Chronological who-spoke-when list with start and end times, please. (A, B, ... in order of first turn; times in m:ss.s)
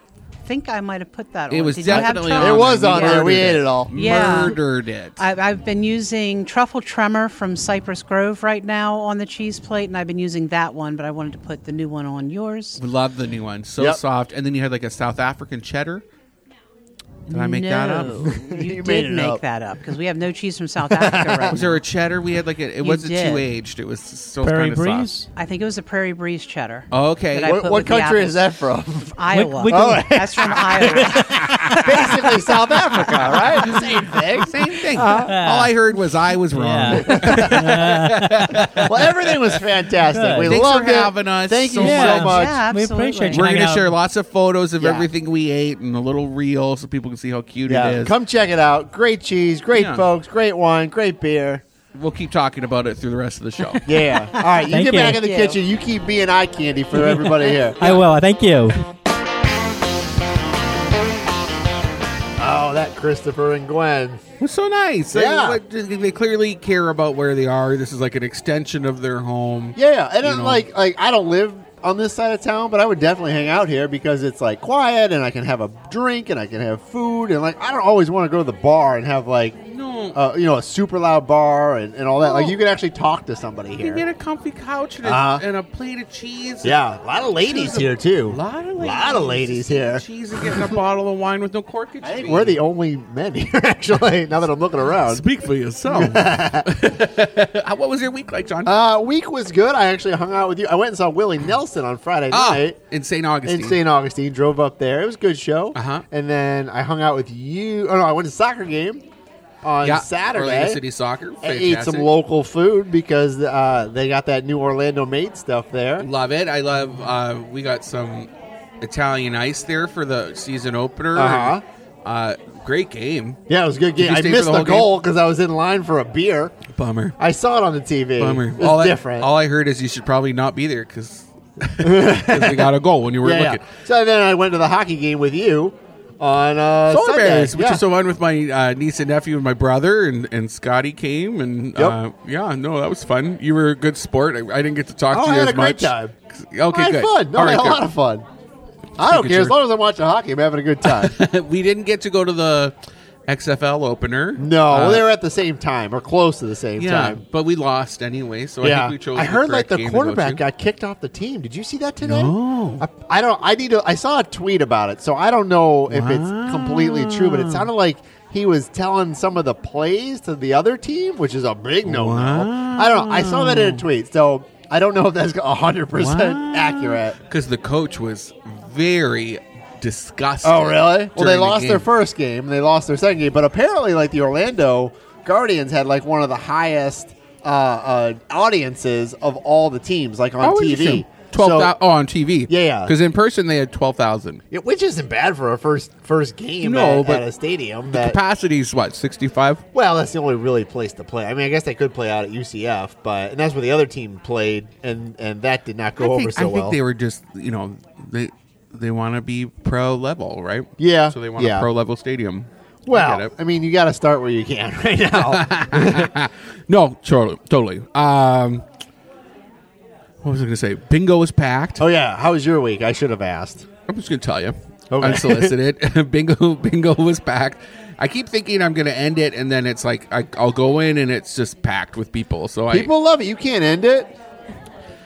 0:00.4-0:04.6 A
0:01.5-0:05.2 B
0:01.9-0:04.5 C
0:05.2-0:12.8 A
0:12.8-0:16.0 B
0:17.3-0:21.8 A
0:17.3-0:18.3 B
0:18.2-0:19.4 C
0:20.9-0:21.6 C
0:21.5-0:25.1 B
0:22.8-0:23.5 A
0:24.4-0:25.3 D
0:25.4-0:28.4 A
0:26.9-0:27.5 B
0:27.4-0:35.3 C
0:29.1-0:32.4 A
0:29.3-0:30.1 D
0:33.3-0:39.5 B
0:35.0-0:35.7 D
0:36.5-0:38.9 D
0:36.9-0:37.8 C
0:38.8-0:42.6 C
0:40.1-0:40.6 D
0:40.5-0:42.5 B
0:41.8-0:43.9 D
0:42.1-0:43.5 A
0:43.3-0:48.1 B
0:44.8-0:45.1 C
0:47.6-0:51.6 C
0:49.7-0:50.0 B
0:51.9-0:53.9 B
0:53.7-0:55.6 A
0:53.9-0:58.0 C
0:54.7-0:55.2 D
0:57.8-0:58.8 D
1:02.4-1:04.2 C
1:04.4-1:10.6 B
1:05.1-1:05.6 C
1:09.8-1:19.6 C
1:19.6-1:20.2 B
1:20.1-1:24.0 C
1:22.2-1:22.6 B
1:23.8-1:26.8 B
1:25.0-1:25.4 C
1:26.6-1:30.8 C
1:27.4-1:32.6 B
1:32.0-1:35.2 C
1:35.0-1:38.7 B
1:35.9-1:36.7 C
1:38.6-1:42.8 C
1:42.3-1:43.8 B
1:43.4-1:49.0 C
1:45.8-1:46.0 B
1:49.6-1:50.8 C
1:49.8-1:52.1 B
1:51.4-1:56.1 C
1:56.0-1:58.3 B
1:58.8-2:03.4 B
2:01.1-2:01.6 C
2:03.5-2:06.6 C
2:04.0-2:04.9 B
2:06.7-2:07.2 B
2:07.2-2:09.3 C
2:08.2-2:13.7 B
2:11.8-2:17.8 C
2:16.9-2:27.8 B
2:25.1-2:26.1 C
2:26.7-2:28.2 C
2:29.0-2:31.2 C
2:29.0-2:29.5 B
2:30.8-2:32.8 B
2:33.3-2:35.0 B
2:34.4-2:37.2 C
2:36.8-2:40.4 B
2:38.6-2:57.2 C
2:42.0-2:42.8 B
2:45.9-2:47.7 B
2:51.8-2:53.8 B
2:56.0-3:01.9 B
3:00.4-3:11.7 C
3:10.4-3:14.4 B
3:12.5-3:13.0 C
3:14.5-3:18.2 C
3:16.6-3:17.2 B
3:17.9-3:19.6 B
3:19.7-3:26.8 C
3:26.0-3:33.3 B
3:30.8-3:31.7 C
3:32.9-3:36.1 C
3:35.1-3:38.6 B
3:40.2-3:41.8 B
3:41.8-3:43.6 C
3:43.9-3:52.9 B
3:44.9-3:45.5 C
3:52.7-3:54.1 C